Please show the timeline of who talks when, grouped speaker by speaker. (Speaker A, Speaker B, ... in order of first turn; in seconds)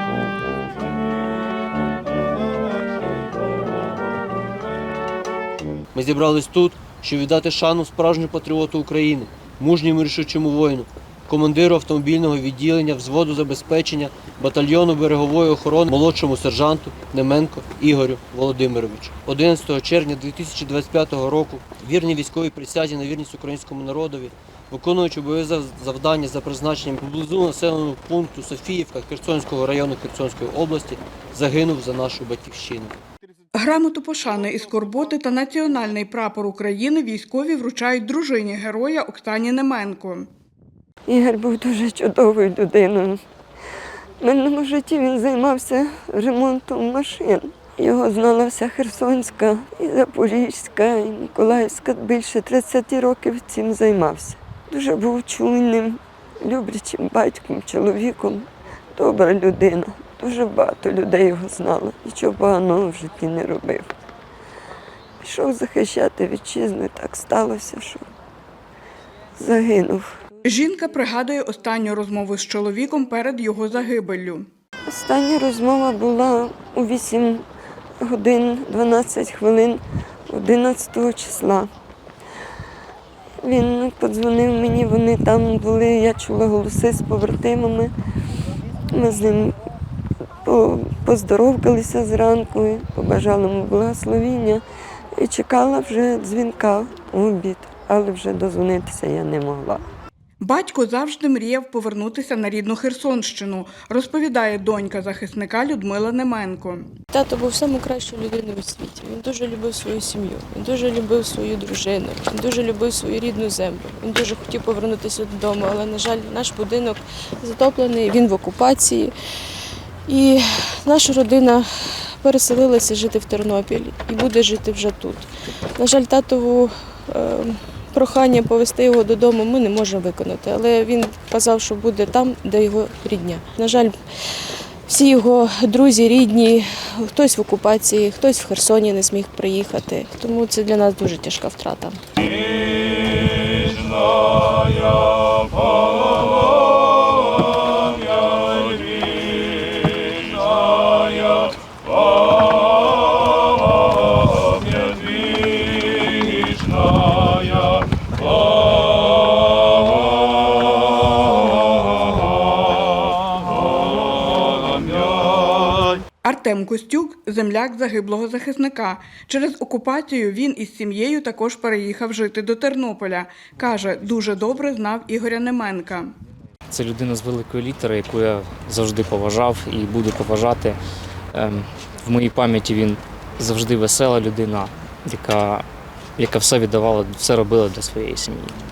Speaker A: 5.9-33.0
Speaker B: 33.5-40.3, 70.4-74.5, 100.4-106.9, 166.2-176.1
Speaker C: 41.1-43.2, 44.2-63.9, 65.2-68.1, 69.4-70.2, 74.9-77.5, 78.0-81.7, 83.4-87.9, 88.9-89.6, 90.4-94.6, 95.2-99.8
Speaker D: 107.1-142.0
Speaker E: 176.7-180.8, 181.3-185.6, 186.2-188.5